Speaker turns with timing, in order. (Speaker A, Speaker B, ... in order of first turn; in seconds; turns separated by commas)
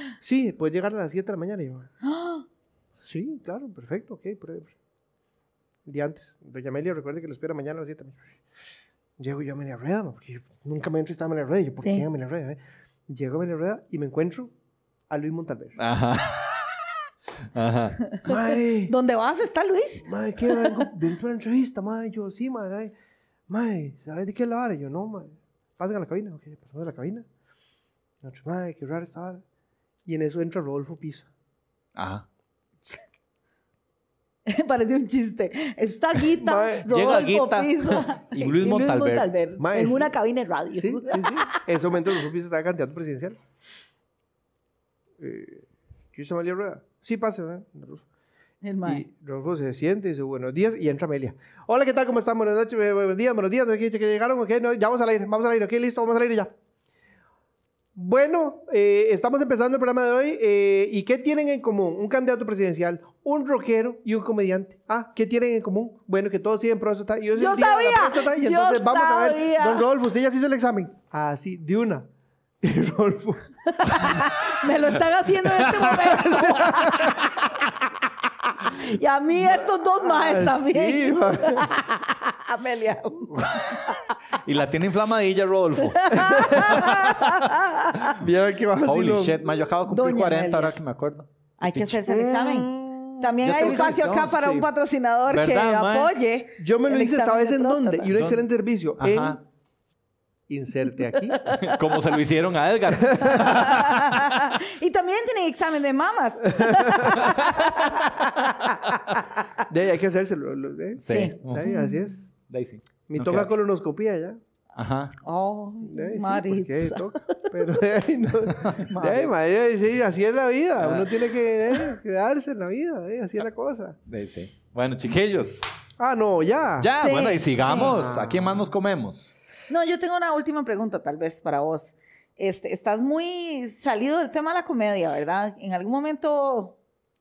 Speaker A: 0.2-1.9, Speaker B: 2.0-2.5, Speaker A: 3.0-4.8, Speaker A: 5.9-8.4, Speaker A: 9.2-14.5, Speaker B: 11.8-12.1, Speaker A: 15.1-15.8, Speaker C: 15.8-17.0, Speaker C: 17.5-18.0, Speaker B: 18.1-20.9, Speaker A: 18.2-18.9, Speaker A: 20.0-22.9, Speaker A: 23.5-27.3, Speaker A: 28.2-29.4, Speaker A: 30.1-31.3, Speaker C: 32.0-32.2, Speaker B: 34.5-41.7, Speaker A: 36.4-36.9, Speaker C: 36.9-39.3, Speaker A: 39.6-40.1, Speaker A: 40.7-43.4, Speaker A: 45.2-48.0, Speaker B: 48.6-49.0, Speaker A: 48.9-56.5, Speaker A: 58.0-72.1, Speaker B: 67.4-69.9, Speaker A: 72.6-74.2, Speaker B: 73.7-77.5, Speaker C: 75.7-76.0, Speaker A: 75.9-77.4, Speaker B: 78.5-84.2, Speaker A: 80.0-81.7, Speaker C: 83.3-87.6, Speaker B: 85.8-88.2, Speaker A: 86.1-87.1, Speaker A: 88.1-89.5, Speaker C: 88.8-92.0, Speaker B: 89.9-90.8, Speaker B: 91.6-98.1, Speaker A: 92.0-94.7, Speaker C: 93.4-94.4, Speaker C: 95.3-96.1, Speaker A: 96.6-99.4, Speaker C: 98.1-98.5, Speaker C: 99.0-99.4, Speaker A: 100.5-101.4, Speaker B: 101.3-102.0, Speaker C: 101.6-104.3, Speaker A: 103.1-103.4, Speaker B: 103.2-109.5, Speaker A: 106.6-107.2, Speaker C: 107.2-107.9, Speaker A: 109.7-112.3, Speaker C: 111.0-111.7, Speaker B: 111.1-112.0, Speaker C: 112.3-113.5, Speaker A: 113.1-114.4, Speaker C: 114.8-115.2, Speaker B: 115.2-117.5, Speaker A: 115.8-124.0, Speaker C: 118.5-119.3, Speaker C: 120.8-121.3, Speaker C: 124.1-125.7, Speaker A: 126.0-127.0, Speaker C: 126.8-129.3, Speaker B: 127.0-127.9, Speaker A: 127.7-128.7, Speaker B: 129.7-136.8